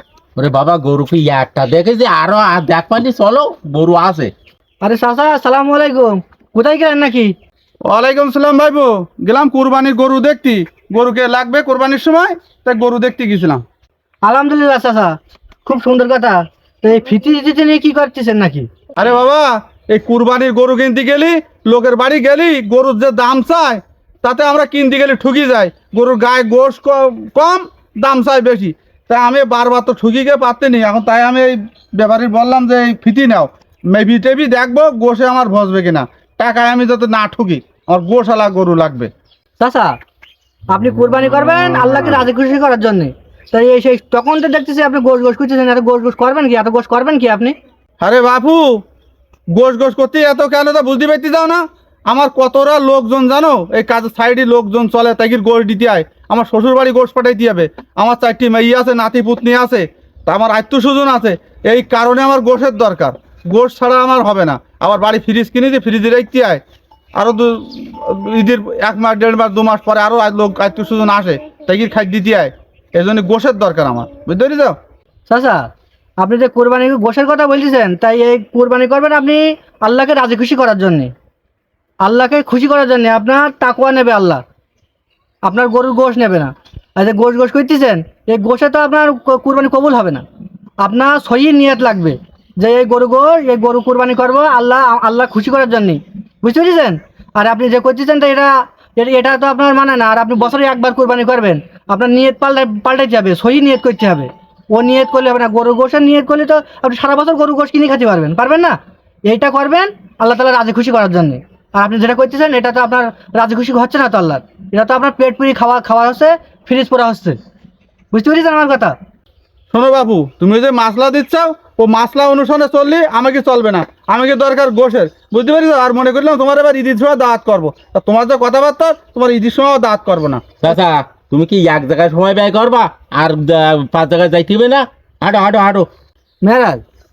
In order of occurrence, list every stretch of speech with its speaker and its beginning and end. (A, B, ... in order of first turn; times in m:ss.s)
0:00.4-0:04.3 A
0:04.8-0:07.3 B
0:07.9-0:13.6 C
0:14.2-0:18.7 B
0:19.0-0:39.1 C
0:39.6-0:40.0 B
0:40.7-0:47.6 B
0:48.0-0:48.8 C
0:49.6-1:06.6 C
1:07.2-1:14.8 C
1:15.3-1:15.7 B
1:16.2-1:21.1 B
1:22.0-1:24.4 B
1:25.5-1:30.2 B
1:30.8-1:57.4 B
1:58.1-1:58.9 B
1:59.7-2:10.4 C
2:10.6-2:15.9 A
2:16.4-2:16.8 B